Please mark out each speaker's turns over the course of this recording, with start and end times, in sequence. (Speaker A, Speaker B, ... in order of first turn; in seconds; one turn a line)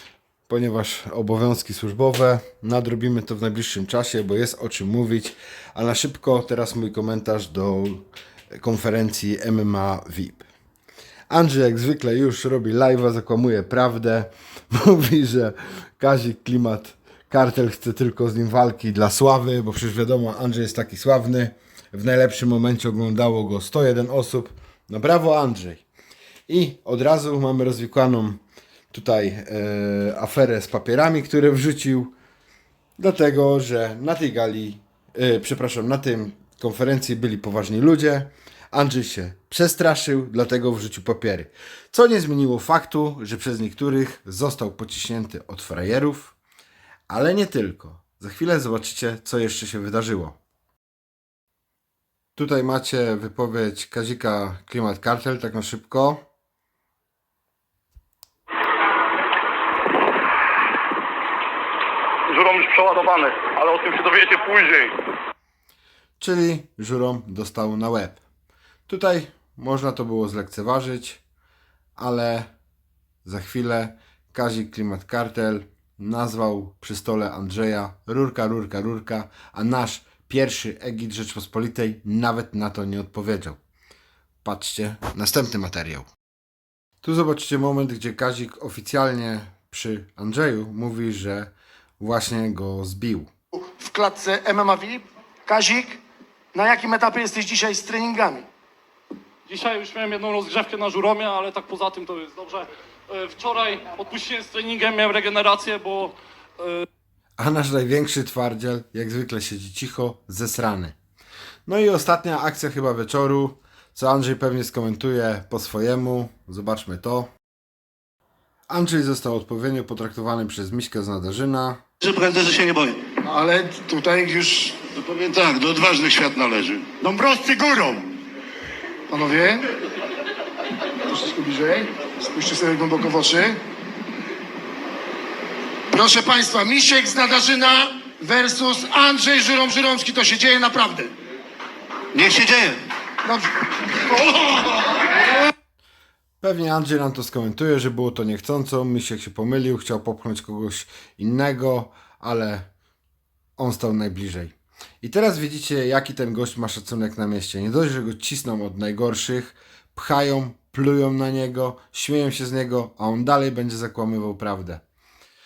Speaker A: 0.5-10.5
Speaker A: 11.3-25.8
Speaker A: 26.5-28.4
Speaker A: 28.9-32.1
Speaker A: 33.0-46.4
Speaker A: 47.1-50.4
Speaker A: 52.4-56.2
Speaker B: 62.3-64.9
Speaker A: 66.2-68.2
Speaker A: 68.9-71.2
Speaker A: 72.0-72.5
Speaker A: 73.2-83.6
Speaker A: 84.4-86.1
Speaker A: 87.0-93.3
Speaker C: 93.7-96.0
Speaker C: 96.5-98.5
Speaker D: 99.5-106.8
Speaker A: 107.4-110.9
Speaker A: 111.7-117.3
Speaker A: 118.7-121.8
Speaker E: 122.0-123.0
Speaker C: 123.2-124.9
Speaker E: 124.9-128.1
Speaker C: 129.1-129.7
Speaker C: 131.0-133.6
Speaker C: 135.9-141.1
Speaker E: 142.1-142.8
Speaker C: 143.2-145.0
Speaker A: 146.4-152.7
Speaker A: 153.6-164.8